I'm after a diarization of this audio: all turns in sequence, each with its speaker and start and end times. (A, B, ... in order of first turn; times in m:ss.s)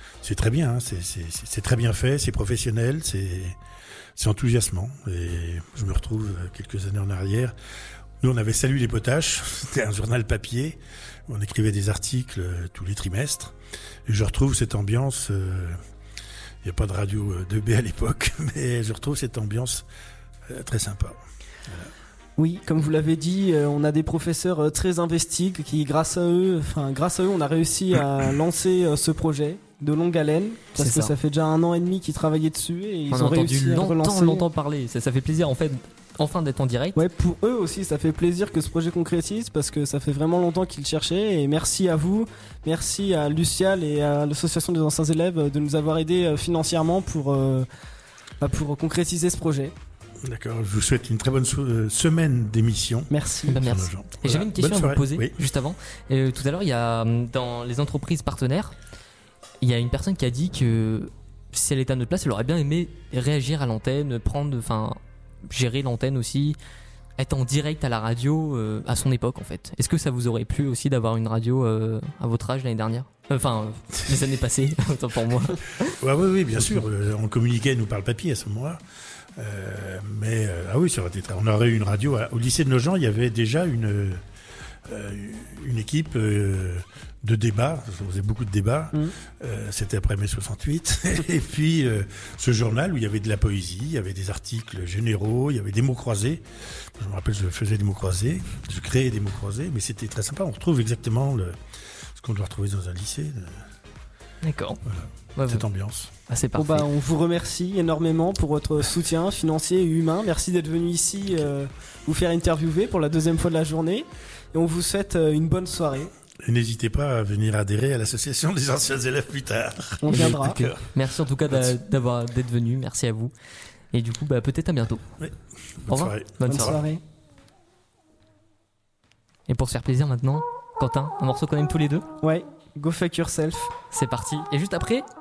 0:00.2-0:03.6 A
0:04.2-0:07.5 A
0:08.2-0:13.6 A
0:14.1-0:15.8 A
0:16.6-0:19.9 A
0:20.5-0:21.9 A
0:22.4-0:34.4 B
0:30.8-0:31.1 C
0:33.1-0:37.0 C
0:37.0-0:47.7 B
0:48.4-0:49.7 B
0:50.3-0:55.3 A
0:53.1-0:53.6 B
0:53.5-0:58.8 C
0:59.6-1:06.6 C
1:07.2-1:15.9 C
1:16.0-1:18.8 A
1:19.4-1:24.2 A
1:24.9-1:41.6 A
1:42.1-1:43.6 A
1:44.4-1:44.8 C
1:45.0-1:46.1 A
1:45.4-1:45.6 C
1:46.3-1:46.9 C
1:46.6-1:56.1 B
1:56.4-2:00.9 A
2:00.0-2:00.6 B
2:00.1-2:03.3 C
2:03.9-2:05.0 C
2:05.2-2:06.8 A
2:05.9-2:06.8 C
2:06.5-2:07.0 B
2:09.5-2:12.1 C
2:12.2-2:13.7 B
2:13.9-2:15.1 C